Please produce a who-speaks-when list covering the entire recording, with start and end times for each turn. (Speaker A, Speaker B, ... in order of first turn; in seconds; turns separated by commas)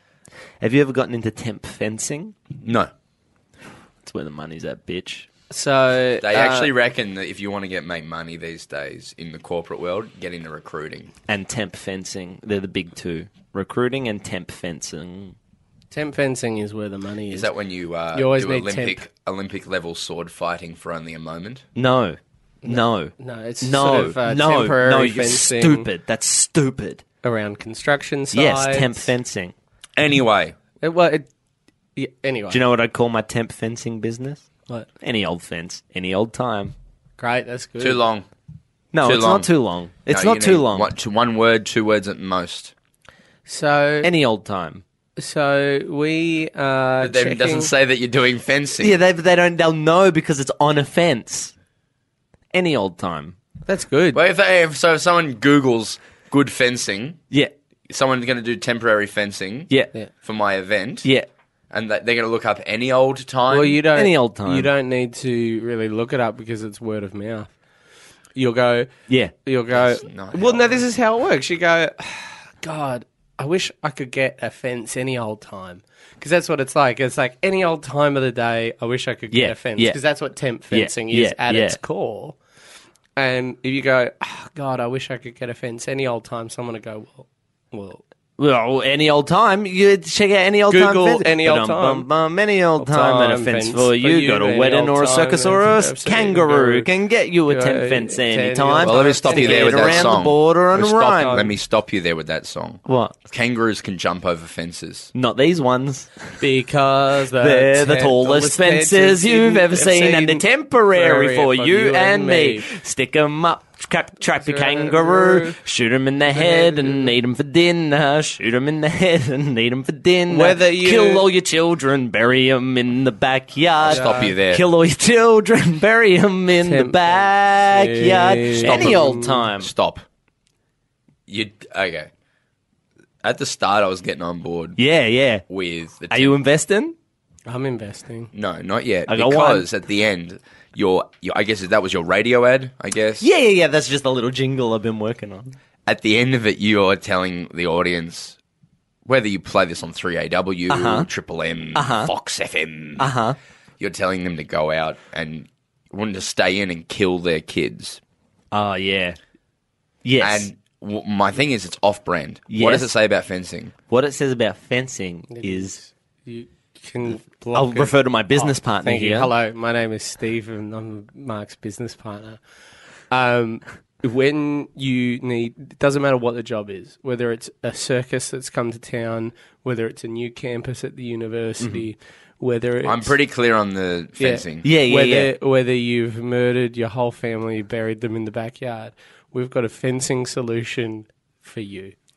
Speaker A: 0.6-2.3, Speaker B: 2.6-2.9, Speaker A: 4.0-5.3, Speaker C: 5.5-6.7, Speaker B: 6.2-11.1, Speaker A: 11.3-15.3, Speaker C: 15.9-17.5, Speaker B: 17.3-21.6, Speaker C: 18.1-19.0, Speaker A: 21.8-27.0, Speaker C: 22.6-25.9, Speaker C: 27.2-29.1, Speaker A: 28.3-29.5, Speaker B: 29.9-30.5, Speaker C: 30.8-31.3, Speaker C: 31.9-32.6, Speaker A: 32.5-34.4, Speaker A: 35.0-36.7, Speaker C: 37.2-38.0, Speaker B: 37.8-38.2, Speaker A: 38.9-40.9, Speaker B: 39.0-39.5, Speaker B: 40.0-42.7, Speaker C: 43.5-44.1, Speaker A: 44.0-44.8, Speaker C: 45.2-47.7, Speaker B: 47.0-48.9, Speaker A: 48.8-51.5, Speaker A: 52.5-53.4, Speaker C: 53.7-54.2, Speaker B: 54.1-57.2, Speaker B: 57.9-59.7, Speaker B: 60.2-61.1, Speaker A: 61.0-61.3, Speaker B: 61.7-63.8, Speaker C: 63.5-67.5, Speaker A: 63.9-64.7, Speaker C: 68.3-68.9, Speaker A: 69.1-69.3, Speaker C: 69.5-82.4, Speaker B: 69.7-70.8, Speaker A: 79.3-80.0, Speaker A: 80.7-81.8, Speaker C: 83.2-88.0, Speaker A: 88.4-101.5, Speaker C: 90.7-92.1, Speaker C: 92.8-96.9, Speaker C: 97.5-100.2, Speaker B: 98.8-105.1, Speaker A: 102.8-103.2, Speaker A: 105.1-106.3, Speaker C: 106.4-112.8, Speaker A: 107.3-129.7, Speaker C: 114.4-115.6, Speaker C: 116.3-117.1, Speaker C: 120.3-121.3, Speaker B: 123.8-124.7, Speaker C: 123.9-124.3, Speaker C: 126.6-129.3, Speaker B: 128.6-130.0, Speaker B: 131.3-132.1, Speaker B: 133.2-134.8, Speaker A: 134.8-135.4, Speaker B: 135.5-136.4, Speaker A: 136.1-136.9, Speaker C: 137.5-138.3, Speaker B: 138.3-143.2, Speaker A: 139.1-139.7, Speaker A: 143.2-145.5, Speaker B: 145.8-148.3, Speaker B: 149.1-153.1, Speaker A: 150.7-151.1, Speaker A: 151.7-152.1, Speaker A: 153.0-153.4, Speaker B: 153.8-158.0, Speaker A: 158.5-159.2, Speaker A: 160.0-160.5, Speaker B: 160.2-163.7, Speaker A: 162.5-162.9, Speaker A: 163.9-165.8, Speaker C: 165.3-172.4, Speaker A: 167.5-169.3, Speaker C: 173.1-183.2, Speaker A: 181.6-181.8, Speaker B: 182.8-184.7, Speaker C: 184.2-191.9, Speaker A: 184.6-185.3